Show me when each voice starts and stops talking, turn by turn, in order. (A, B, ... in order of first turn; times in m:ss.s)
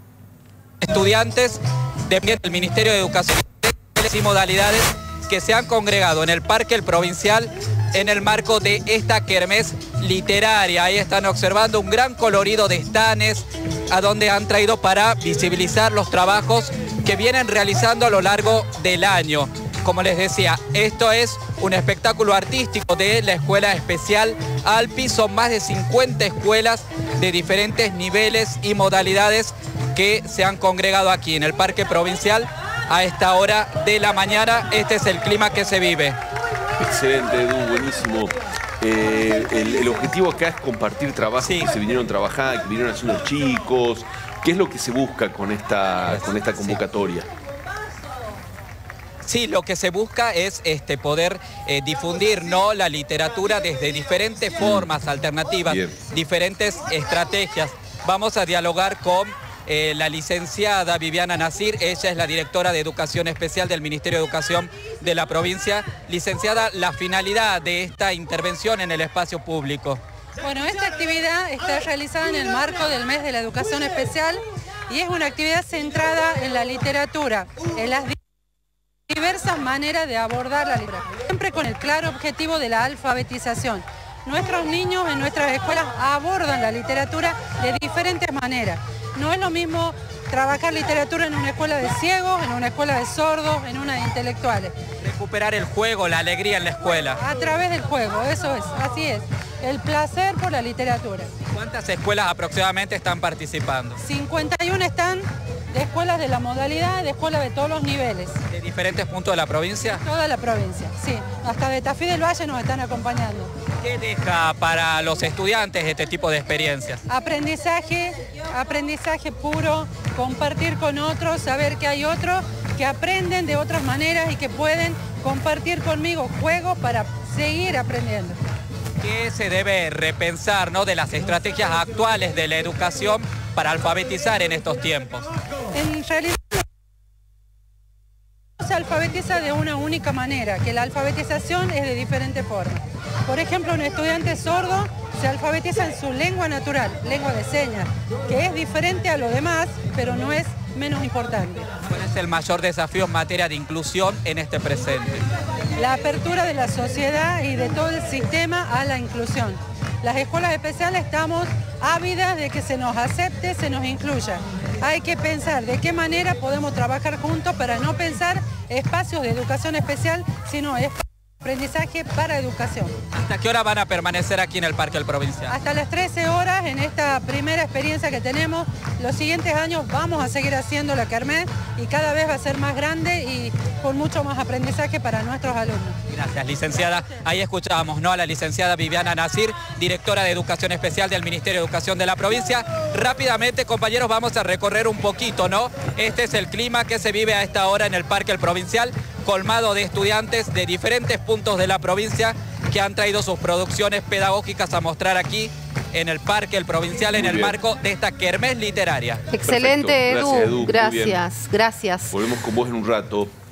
0:00.8-0:36.2 A
0:36.8-0:47.3 B
0:41.4-0:41.7 A
0:46.1-0:46.8 A
0:49.2-1:10.0 A
0:54.6-0:54.9 B
0:55.7-0:56.0 B
1:10.4-1:18.2 C
1:19.1-1:34.8 C
1:35.0-1:37.2 A
1:37.2-1:41.3 C
1:41.5-1:44.0 A
1:44.0-1:48.4 C
1:48.5-1:50.0 A
1:50.0-1:53.5 C
1:53.8-1:57.0 A
1:57.1-2:08.4 C
2:09.0-2:15.2 A
2:15.7-2:16.6 C
2:18.6-2:31.7 C
2:31.8-2:35.2 A
2:35.8-2:53.0 C
2:53.1-2:55.5 A
2:55.5-3:06.0 C
3:06.1-3:29.2 A
3:27.1-3:27.6 B
3:29.3-3:32.2 D
3:29.4-3:31.2 B
3:32.1-3:33.3 B